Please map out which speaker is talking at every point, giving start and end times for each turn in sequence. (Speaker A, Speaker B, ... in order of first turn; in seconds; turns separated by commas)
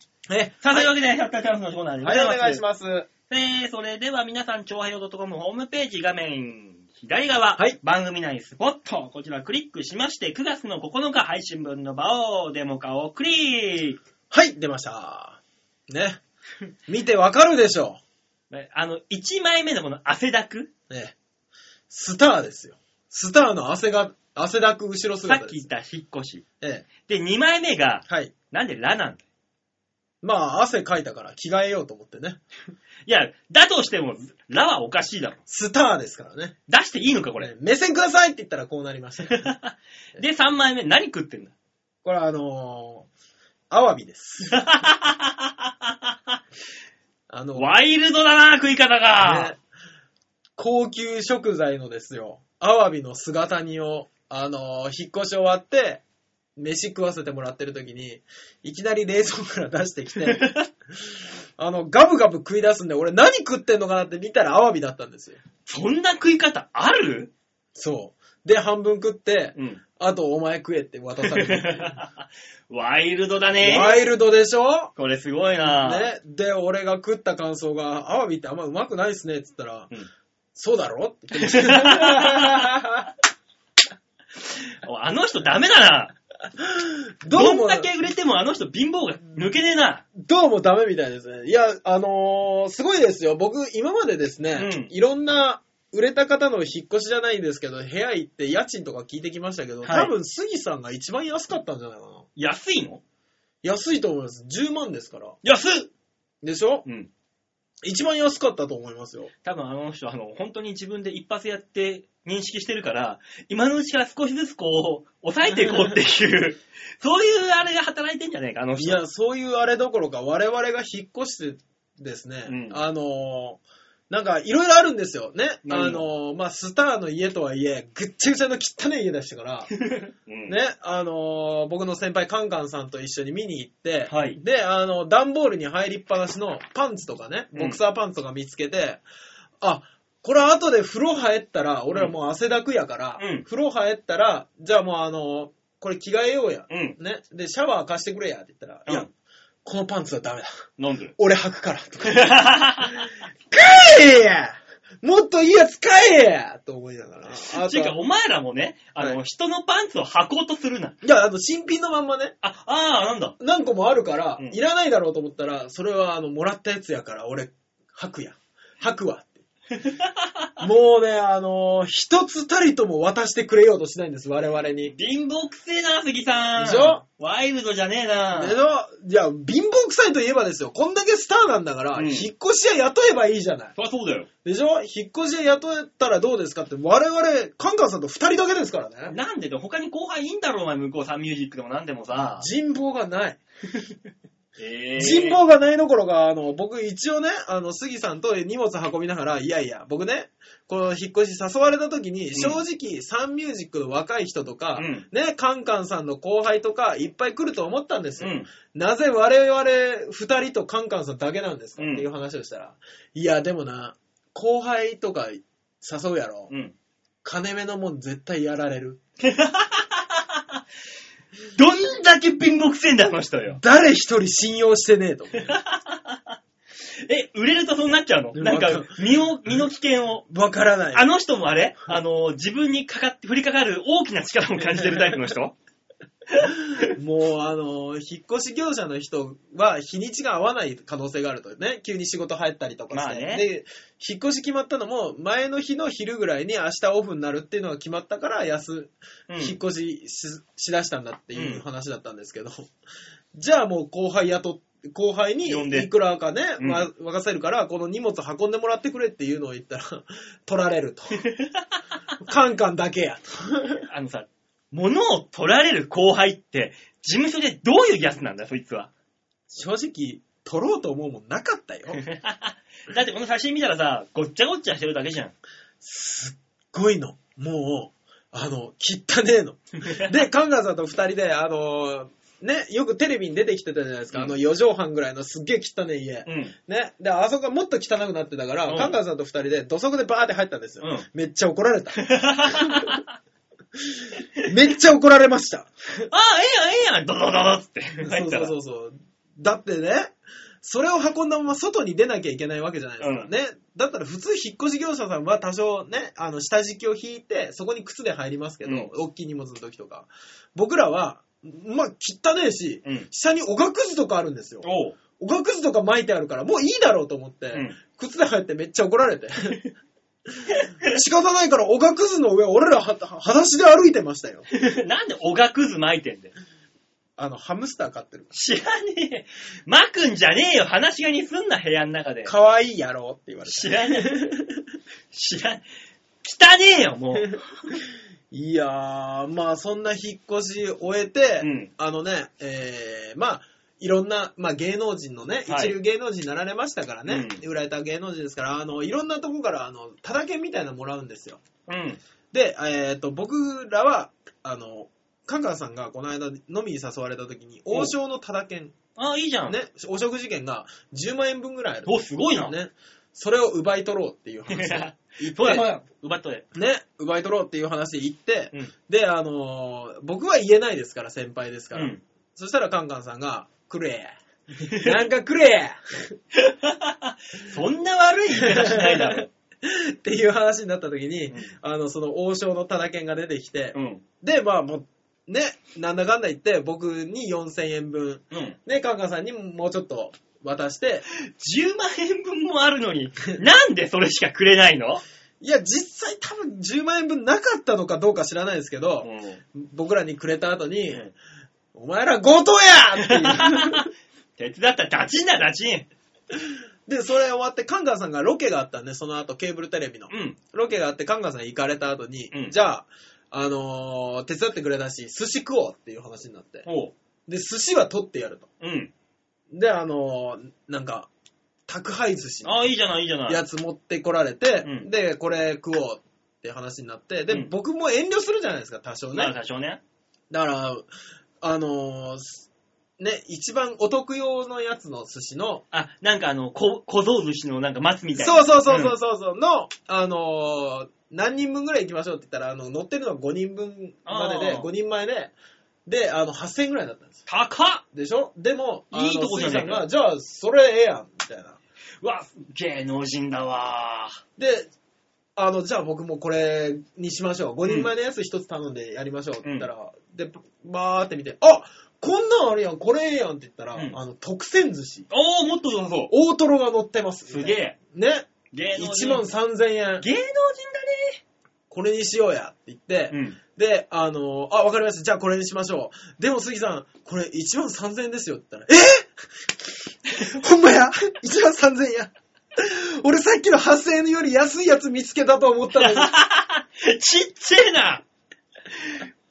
Speaker A: 0.3-0.9, Speaker B: 0.6-2.6, Speaker A: 2.0-3.1, Speaker B: 3.3-14.0, Speaker A: 14.3-16.2, Speaker A: 16.9-18.0, Speaker B: 18.5-20.7, Speaker A: 20.9-21.1, Speaker A: 21.9-25.7, Speaker B: 25.3-26.4, Speaker A: 26.6-26.9, Speaker B: 27.1-29.2, Speaker A: 28.1-28.3, Speaker A: 30.2-32.4, Speaker B: 33.1-35.4, Speaker A: 35.5-36.6, Speaker B: 36.7-37.5, Speaker A: 37.4-39.5, Speaker B: 39.3-41.5, Speaker A: 42.0-43.1, Speaker A: 43.7-44.6, Speaker B: 44.5-46.4, Speaker A: 47.3-47.7, Speaker B: 47.6-49.5, Speaker A: 49.2-49.6, Speaker A: 50.6-56.0, Speaker A: 56.6-65.4, Speaker B: 60.2-60.6, Speaker B: 65.7-67.3, Speaker A: 67.8-72.0, Speaker B: 69.6-69.8, Speaker B: 71.2-74.0, Speaker A: 73.6-74.9, Speaker B: 75.0-76.1, Speaker A: 75.6-79.9, Speaker A: 80.5-83.1, Speaker B: 81.4-82.7, Speaker B: 84.6-86.2, Speaker A: 86.6-87.9, Speaker B: 87.3-90.0, Speaker A: 90.2-102.3, Speaker B: 94.5-94.9, Speaker B: 99.8-100.1, Speaker B: 102.4-103.0, Speaker A: 103.6-105.4, Speaker B: 105.4-105.9, Speaker A: 106.4-106.8, Speaker B: 106.8-107.1, Speaker A: 107.8-109.3, Speaker B: 109.4-119.0, Speaker A: 115.6-115.9, Speaker A: 118.8-129.7, Speaker B: 122.5-122.8, Speaker B: 125.7-126.1, Speaker B: 129.7-130.6, Speaker A: 130.5-139.0, Speaker B: 134.1-134.4, Speaker B: 137.5-137.8, Speaker A: 139.6-149.1, Speaker B: 143.2-143.4, Speaker B: 146.7-147.0, Speaker A: 149.7-150.6, Speaker B: 150.8-151.2, Speaker A: 151.2-158.0, Speaker B: 152.1-153.1, Speaker B: 157.4-161.0, Speaker A: 161.0-162.4, Speaker B: 162.4-163.4, Speaker A: 163.4-169.4, Speaker B: 169.8-170.5, Speaker A: 170.6-174.9, Speaker B: 174.9-178.6, Speaker A: 176.6-177.0, Speaker A: 178.3-183.7, Speaker B: 181.9-182.3, Speaker B: 183.8-184.3, Speaker A: 184.4-189.2, Speaker B: 189.1-192.5, Speaker A: 192.4-193.4, Speaker B: 194.6-195.4, Speaker A: 195.0-216.5, Speaker B: 202.3-202.6, Speaker B: 204.8-205.1, Speaker B: 208.2-208.5, Speaker B: 211.8-212.1, Speaker B: 216.5-216.8, Speaker A: 217.2-219.0, Speaker B: 219.2-220.2, Speaker B: 221.6-223.6, Speaker A: 223.6-225.6, Speaker B: 225.5-226.4, Speaker B: 227.1-230.3, Speaker A: 228.3-229.0, Speaker A: 230.3-231.1, Speaker B: 230.9-235.6, Speaker A: 236.8-252.7, Speaker B: 242.9-243.5, Speaker B: 249.3-249.6, Speaker B: 251.3-251.6, Speaker A: 253.3-261.2, Speaker B: 255.5-255.9, Speaker B: 256.6-256.9, Speaker B: 261.2-261.6, Speaker A: 262.2-263.9, Speaker B: 263.9-268.9, Speaker A: 269.5-272.0, Speaker B: 271.9-275.3, Speaker A: 275.8-292.9, Speaker B: 286.3-286.5, Speaker B: 288.7-289.0, Speaker B: 290.8-291.1, Speaker B: 292.0-293.1, Speaker A: 293.8-295.7, Speaker B: 296.1-298.5, Speaker A: 298.0-319.6, Speaker B: 303.0-303.3, Speaker B: 314.6-315.0, Speaker B: 320.5-320.9, Speaker A: 320.9-324.4, Speaker B: 324.5-326.3, Speaker A: 327.2-328.3, Speaker B: 328.3-332.3, Speaker A: 332.2-334.6, Speaker B: 333.5-334.2, Speaker B: 335.1-335.6, Speaker B: 336.2-337.4, Speaker A: 337.1-351.4, Speaker B: 341.4-341.7, Speaker B: 345.5-345.8, Speaker B: 347.1-347.4, Speaker B: 351.7-352.0, Speaker A: 352.3-358.8, Speaker B: 359.0-359.6, Speaker A: 359.5-365.7, Speaker B: 361.9-362.6, Speaker B: 364.5-366.4, Speaker A: 366.5-374.1, Speaker B: 371.7-372.0, Speaker B: 374.6-375.0, Speaker A: 374.7-376.2, Speaker B: 376.4-379.3, Speaker A: 378.3-391.1, Speaker B: 383.7-384.0, Speaker B: 388.3-388.6, Speaker B: 391.3-395.0, Speaker A: 395.4-401.1, Speaker B: 399.0-399.4, Speaker A: 401.7-403.9, Speaker B: 403.1-405.9, Speaker A: 406.3-416.7, Speaker B: 410.1-410.4, Speaker B: 416.7-416.9, Speaker A: 417.3-418.5, Speaker B: 418.6-418.9, Speaker A: 419.5-421.1, Speaker A: 421.7-422.6, Speaker B: 422.4-423.4, Speaker A: 423.3-429.3, Speaker B: 424.6-424.9, Speaker B: 429.1-429.8, Speaker A: 430.3-430.9, Speaker A: 431.4-432.5, Speaker A: 433.0-435.6, Speaker B: 435.7-439.0, Speaker A: 438.2-445.3, Speaker B: 444.1-444.7, Speaker A: 445.9-447.2, Speaker B: 447.3-447.8, Speaker A: 447.9-451.6, Speaker B: 448.9-449.9, Speaker B: 452.0-454.2, Speaker A: 454.4-454.7, Speaker A: 455.4-465.1, Speaker B: 457.6-457.9, Speaker B: 459.4-459.7, Speaker B: 465.1-466.1, Speaker A: 466.1-470.1, Speaker B: 467.3-467.8, Speaker B: 468.5-469.3, Speaker B: 470.0-471.2, Speaker A: 471.7-486.1, Speaker B: 473.1-473.4, Speaker B: 485.8-488.0